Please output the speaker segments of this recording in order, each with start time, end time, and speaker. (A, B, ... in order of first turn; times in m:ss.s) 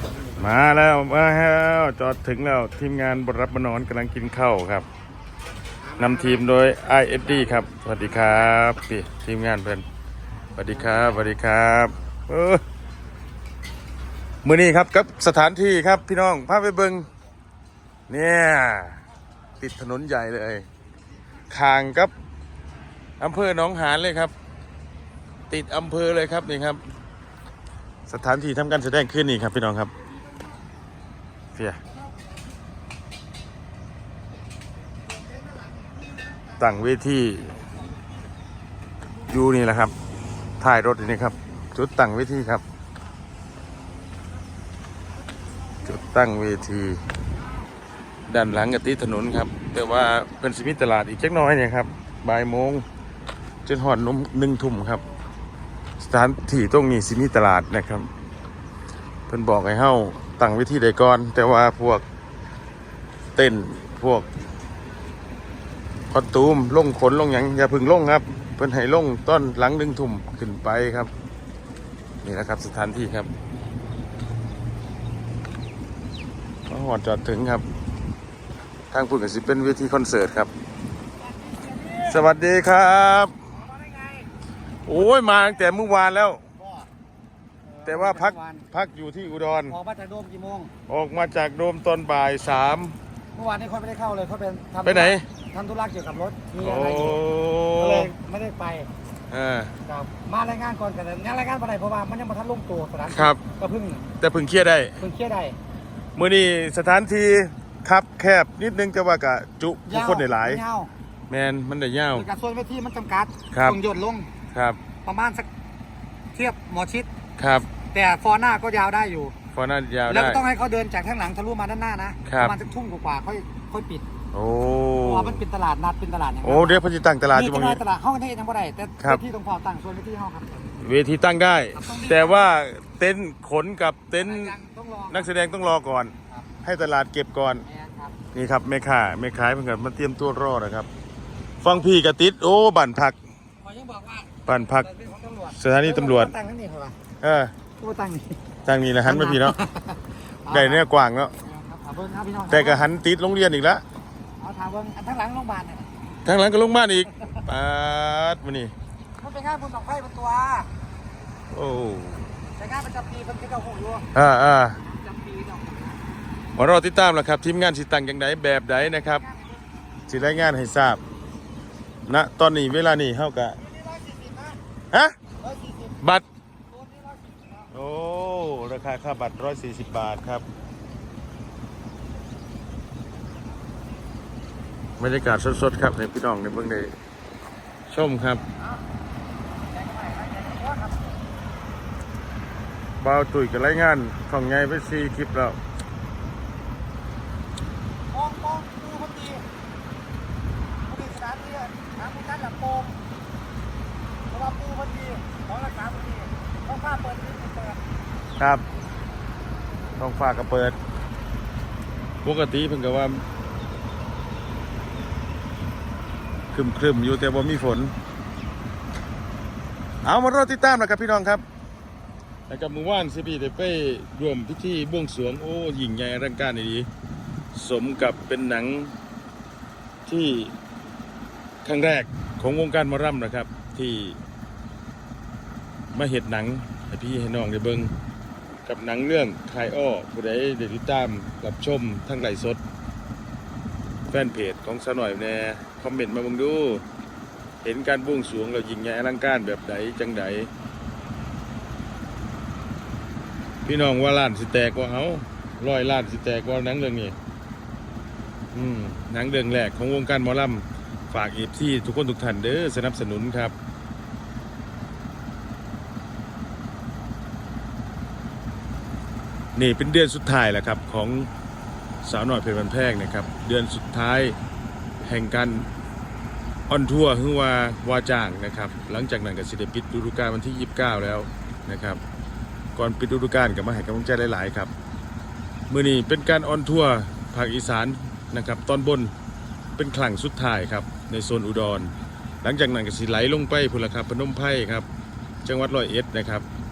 0:00.4-0:04.9 A
0:06.0-0:09.8 A
0:10.6-0:12.6 A
0:14.4-0:17.1 A
0:18.1-0:19.0 A
0:19.6-0:20.7 A
0:21.5-0:22.1 A
0:23.2-0:24.3 A
0:25.5-0:26.8 A
0:28.1-0:29.9 A
0:36.6-0:37.6 A
0:39.3-0:40.0 A
0:40.6-0:42.6 A
0:45.8-0:47.0 A
0:48.3-0:52.9 A
0:53.7-0:55.0 A
0:56.0-0:58.1 A
0:59.3-1:02.0 A
1:03.4-1:04.3 A
1:06.1-1:11.1 A
1:12.2-1:13.3 A
1:16.7-1:17.7 A
1:18.9-1:20.5 A
1:21.2-1:22.2 B
1:22.0-1:23.4 A
1:23.6-1:24.3 B
1:24.8-1:26.4 A
1:26.6-1:26.9 B
1:27.7-1:28.6 B
1:27.8-1:29.8 A
1:29.7-1:30.7 B
1:30.9-1:33.0 A
1:33.3-1:37.2 B
1:34.8-1:35.2 A
1:36.6-1:38.1 A
1:37.8-1:38.9 B
1:39.3-1:39.7 A
1:39.8-1:44.1 B
1:43.1-1:43.4 A
1:44.2-1:45.0 A
1:45.0-1:45.6 B
1:46.2-1:50.6 A
1:49.9-1:50.9 B
1:51.3-1:52.3 A
1:52.1-1:54.3 B
1:53.5-1:53.8 A
1:54.5-1:54.8 A
1:55.0-1:55.5 B
1:56.3-1:57.1 B
1:57.4-1:57.7 A
1:57.9-1:59.4 B
1:59.5-2:00.4 A
2:00.1-2:04.1 B
2:02.3-2:02.6 A
2:04.3-2:05.4 A
2:05.0-2:10.8 B
2:06.4-2:07.8 A
2:10.8-2:14.5 A
2:11.8-2:12.5 B
2:14.2-2:15.3 B
2:15.1-2:17.6 A
2:17.7-2:18.2 B
2:18.3-2:20.9 A
2:21.6-2:23.2 A
2:23.6-2:27.0 B
2:24.4-2:24.9 A
2:25.5-2:26.3 A
2:27.2-2:27.5 A
2:27.8-2:28.4 B
2:28.6-2:29.6 A
2:29.0-2:30.8 B
2:30.5-2:31.3 A
2:31.4-2:32.8 B
2:32.5-2:33.8 A
2:34.4-2:35.9 B
2:36.2-2:38.7 A
2:39.2-2:40.7 B
2:41.5-2:42.3 A
2:42.6-2:44.1 B
2:44.1-2:44.8 A
2:44.8-2:46.0 B
2:46.6-2:49.2 A
2:50.1-2:51.0 A
2:52.1-2:53.6 A
2:53.7-2:54.6 B
2:55.4-2:56.0 B
2:56.7-2:57.7 B
2:57.7-3:00.4 A
3:05.0-3:06.9 A
3:07.9-3:08.4 A
3:09.6-3:11.2 B
3:13.0-3:15.6 A
3:18.1-3:19.4 B
3:20.9-3:23.0 B
3:24.3-3:27.8 B
3:28.4-3:28.6 A
3:30.0-3:30.8 A
3:32.2-3:33.2 A
3:36.5-3:37.9 A
3:40.0-3:41.4 A
3:42.5-3:46.9 A
3:47.5-3:48.9 A
3:50.1-3:50.6 A
3:51.6-3:54.2 A
3:55.9-3:57.9 A
3:58.7-4:02.6 A
4:04.1-4:06.8 A
4:07.6-4:10.5 A
4:13.6-4:17.2 A
4:18.5-4:23.5 A
4:29.6-4:31.3 A
4:32.0-4:34.4 A
4:35.0-4:35.7 A
4:36.7-4:42.0 A
4:42.8-4:44.7 A
4:45.7-4:49.1 A
4:49.8-4:54.9 A
4:55.4-4:56.5 A